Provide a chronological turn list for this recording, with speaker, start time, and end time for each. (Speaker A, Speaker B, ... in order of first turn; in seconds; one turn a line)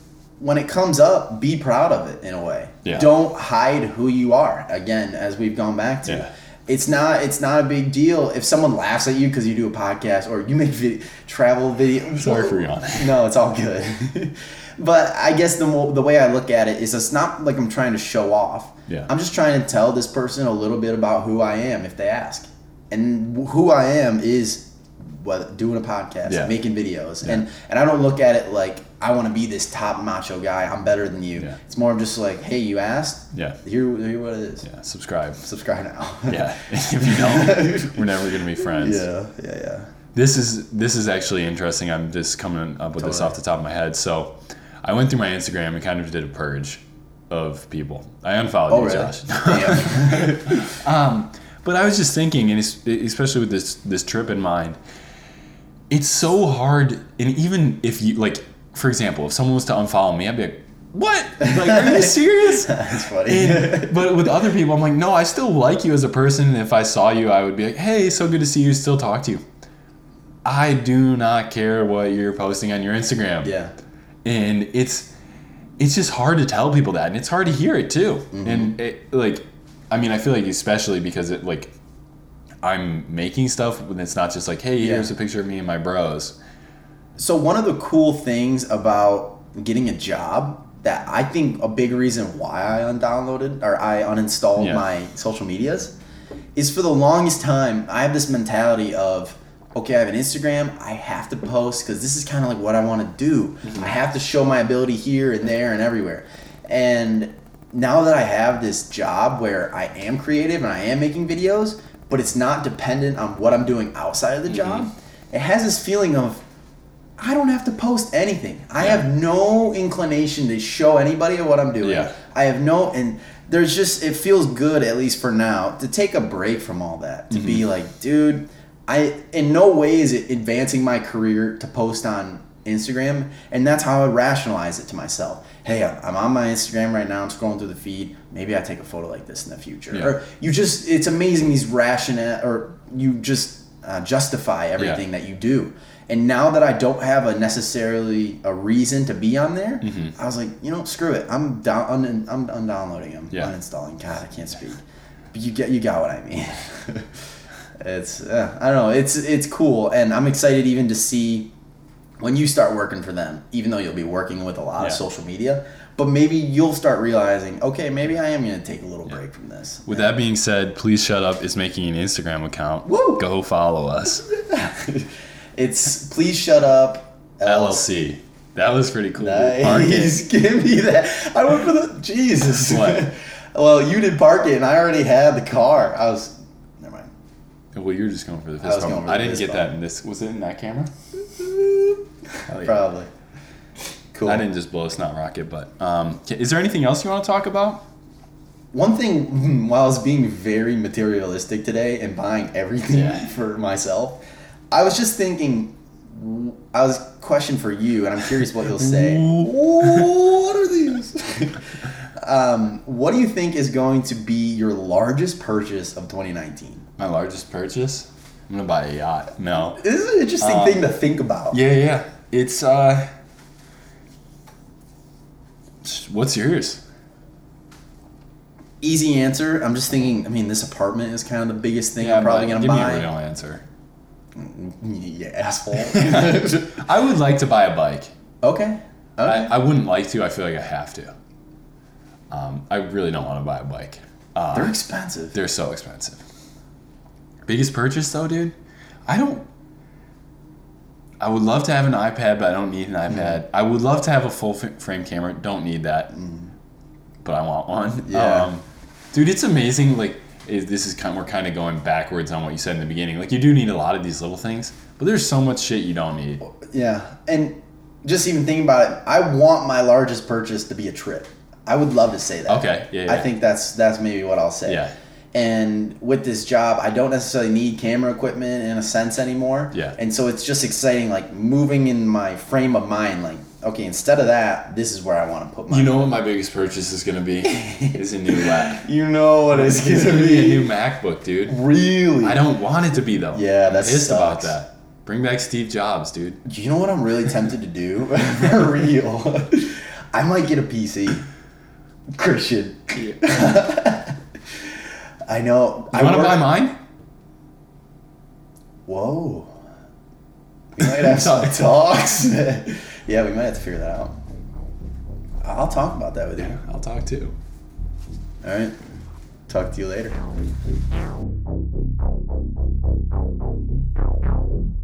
Speaker A: 0.4-34.7
Speaker B: 2.8-3.1
Speaker B: 12.1-13.1
Speaker B: 26.3-26.5
Speaker B: 34.6-35.4
Speaker A: 35.4-39.9
Speaker B: 36.3-39.0
Speaker B: 40.1-54.8
Speaker A: 43.0-43.3
Speaker A: 48.7-50.8
Speaker B: 55.9-69.4
Speaker A: 61.4-64.3
Speaker B: 70.4-73.5
Speaker A: 73.4-73.7
Speaker B: 74.2-75.1
Speaker B: 75.8-81.7
Speaker A: 78.3-78.8
Speaker B: 82.6-86.3
Speaker A: 84.8-85.1
Speaker A: 87.2-95.9
Speaker B: 94.6-94.8
Speaker A: 96.5-116.4
Speaker B: 103.7-103.9
Speaker B: 114.5-114.9
Speaker A: 117.2-154.8
Speaker B: 118.8-119.0
Speaker B: 121.8-122.1
Speaker B: 127.3-127.6
Speaker B: 149.8-150.1
Speaker A: 155.3-157.2
Speaker A: 157.8-161.5
Speaker A: 162.2-170.1
Speaker B: 169.8-174.2
Speaker A: 172.8-173.2
Speaker A: 174.3-178.0
Speaker B: 177.4-180.2
Speaker A: 179.2-187.1
Speaker B: 182.5-183.1
Speaker B: 187.7-190.9
Speaker A: 188.6-189.7
Speaker A: 191.3-193.1
Speaker B: 192.5-192.8
Speaker A: 194.1-194.4
Speaker B: 194.2-197.8
Speaker A: 198.7-204.2
Speaker B: 202.9-203.3
Speaker A: 204.7-216.8
Speaker B: 208.8-210.2
Speaker B: 217.0-219.8
Speaker A: 219.8-221.6
Speaker B: 220.4-220.8
Speaker B: 221.5-223.1
Speaker B: 225.8-226.8
Speaker A: 228.8-233.1
Speaker B: 232.0-233.6
Speaker A: 234.3-236.8
Speaker B: 235.8-238.1
Speaker A: 238.4-239.5
Speaker B: 239.2-241.1
Speaker B: 242.3-244.7
Speaker A: 244.5-245.3
Speaker B: 245.3-246.2
Speaker B: 247.4-248.5
Speaker B: 249.1-249.4
Speaker B: 251.2-256.1
Speaker A: 256.1-256.5
Speaker B: 257.2-266.4
Speaker A: 258.0-258.5
Speaker A: 266.4-274.8
Speaker B: 272.5-273.3
Speaker B: 274.6-274.9
Speaker A: 275.3-286.0
Speaker B: 279.7-280.0
Speaker B: 285.7-288.9
Speaker A: 287.4-290.7
Speaker B: 289.5-291.6
Speaker A: 291.5-292.4
Speaker B: 292.2-296.4
Speaker A: 293.3-294.5
Speaker A: 296.4-301.3
Speaker A: 302.1-306.5
Speaker B: 302.9-303.3
Speaker B: 305.9-306.8
Speaker A: 308.9-309.5
Speaker A: 310.7-314.2
Speaker B: 310.8-312.0
Speaker A: 315.4-316.6
Speaker B: 316.4-317.4
Speaker A: 318.4-318.8
Speaker A: 319.5-320.2